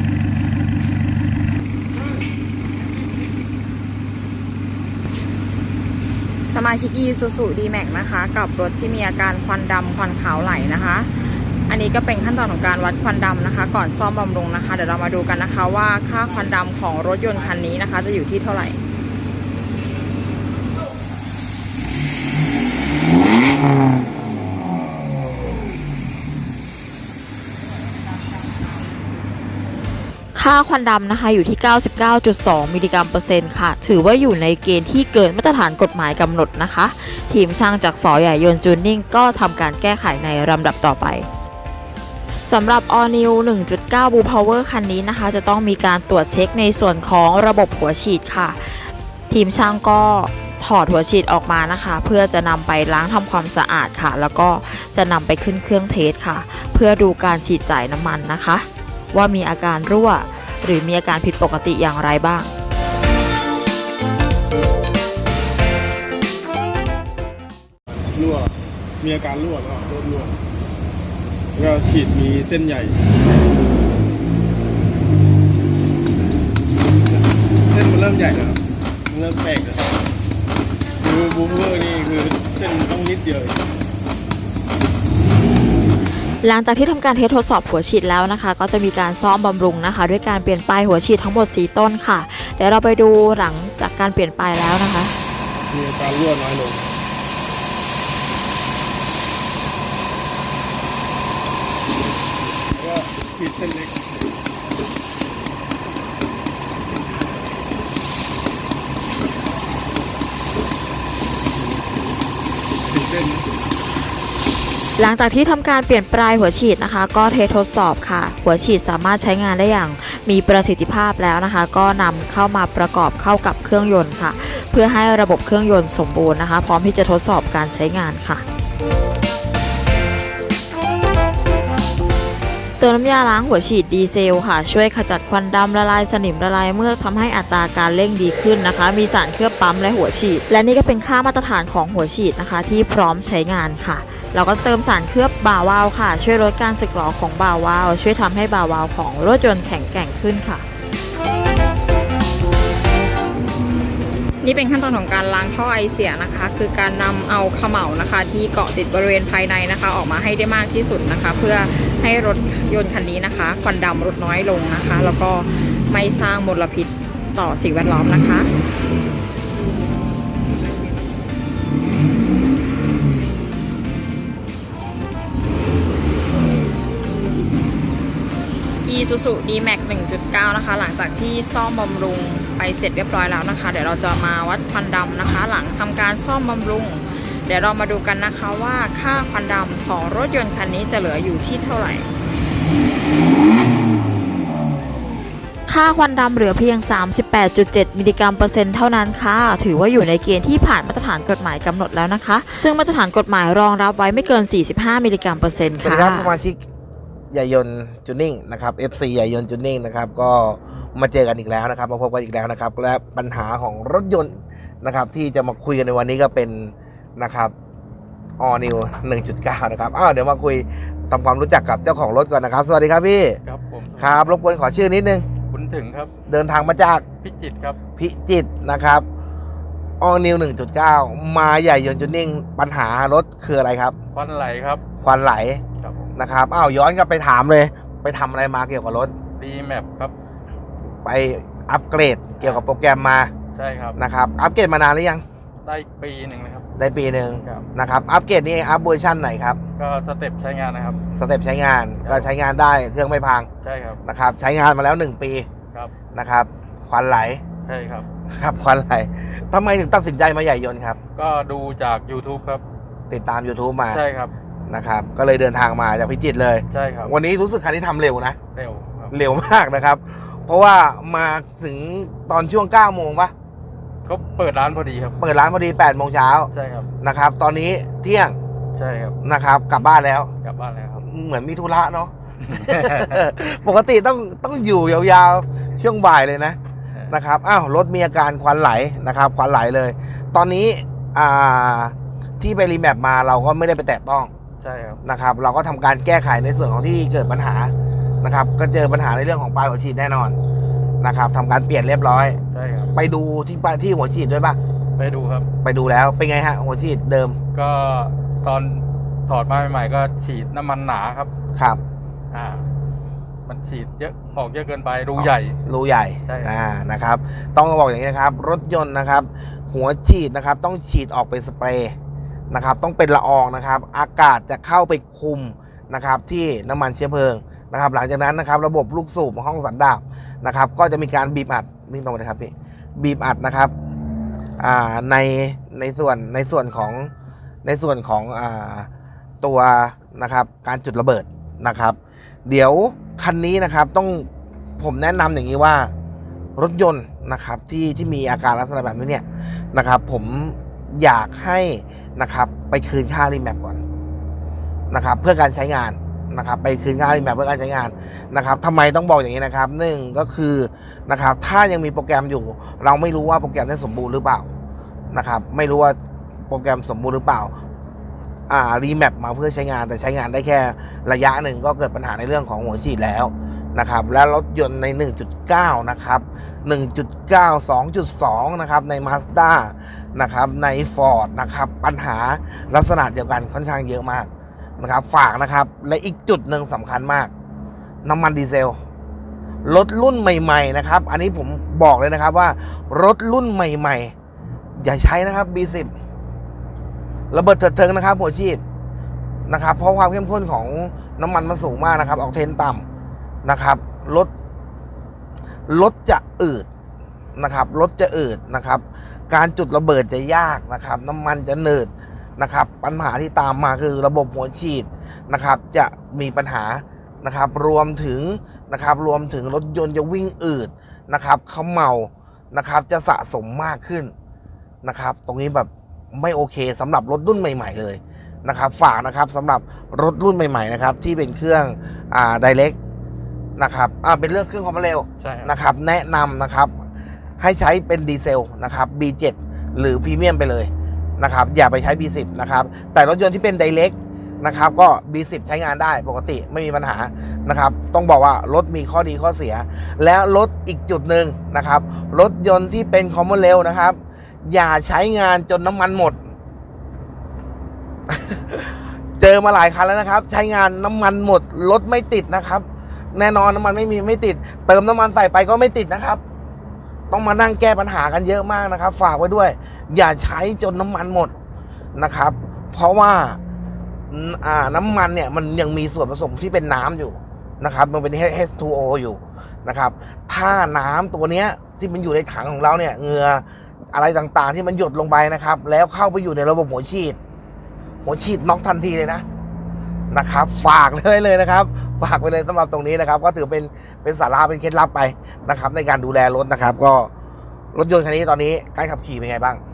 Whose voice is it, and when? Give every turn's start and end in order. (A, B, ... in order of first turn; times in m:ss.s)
0:06.4-0:11.1 A
0:11.7-0:18.8 A
0:30.3-0:41.3 B
0:42.3-1:02.5 B
1:07.9-1:10.4 C
1:11.6-1:13.0 C
1:17.1-1:20.0 C
1:21.0-1:23.7 C
1:26.4-1:35.1 B
1:35.7-1:36.9 C
1:42.7-1:44.0 C
1:52.8-1:53.5 C
1:55.0-2:08.4 B
2:12.8-2:30.6 B
2:34.4-2:48.5 A
2:58.8-3:12.1 A
3:15.7-3:26.3 B
3:25.8-3:26.6 D
3:27.3-3:37.5 D
3:38.4-3:43.4 D
3:43.4-3:44.4 E
3:44.0-3:45.3 D
3:45.5-3:46.1 E
3:46.3-3:47.1 D
3:47.2-3:47.8 E
3:48.0-3:49.1 D
3:50.0-3:54.0 D
3:54.1-3:54.8 E
3:55.0-3:55.6 D
3:55.8-3:56.1 E
3:56.2-3:59.1 D
3:59.4-4:00.1 E
4:01.0-4:03.3 D
4:02.4-4:02.6 E
4:03.6-4:04.0 E
4:04.0-4:05.2 D
4:05.6-4:06.7 E
4:06.8-4:09.6 D
4:09.8-4:11.0 E
4:11.2-4:13.5 D
4:12.0-4:12.3 E
4:13.6-4:14.0 E
4:14.0-4:15.5 D
4:16.1-4:17.4 D
4:17.7-4:18.1 E
4:18.3-4:21.0 D
4:21.2-4:22.6 E
4:23.1-4:24.0 D
4:23.9-4:24.3 E
4:24.7-4:28.4 D
4:26.7-4:27.2 E
4:28.6-4:29.2 E
4:29.1-4:33.3 D
4:34.1-4:35.2 E
4:35.2-4:38.4 D
4:36.5-4:36.9 E
4:38.8-4:39.2 E
4:39.2-4:40.3 D
4:40.4-4:41.0 E
4:41.0-4:46.6 D
4:42.4-4:43.2 E
4:47.1-4:54.3 D
4:54.6-4:55.0 E
4:55.0-5:00.4 D
5:01.0-5:02.4 D
5:02.5-5:02.9 E
5:02.9-5:04.6 D
5:05.0-5:05.5 E
5:05.6-5:07.4 D
5:07.5-5:11.3 E
5:11.6-5:11.8 D
5:12.3-5:12.7 E
5:13.5-5:15.6 E
5:15.2-5:22.0 D
5:16.3-5:16.5 E
5:22.5-5:33.7 D
5:34.6-5:37.1 D
5:37.6-5:38.9 D
5:39.4-5:44.3 D
5:44.8-5:45.9 D
5:46.6-5:53.8 D
5:54.9-6:04.5 D
6:05.1-6:06.0 D
6:06.5-6:07.5 D
6:08.5-6:27.3 D
6:28.0-6:28.8 D
6:29.6-6:34.1 D
6:34.8-6:35.9 D
6:37.3-6:38.6 D
6:39.5-6:42.8 D
6:43.4-6:44.3 D
6:45.7-6:46.7 D
6:47.4-7:04.1 D
7:04.8-7:12.8 D
7:13.6-7:16.8 D
7:15.2-7:15.5 E
7:17.4-7:36.2 D
7:38.1-7:46.2 D
7:47.1-7:51.3 D
7:52.0-7:53.4 D
7:54.1-8:07.2 D
8:08.0-8:09.2 D
8:10.1-8:17.1 D
8:17.7-8:19.6 D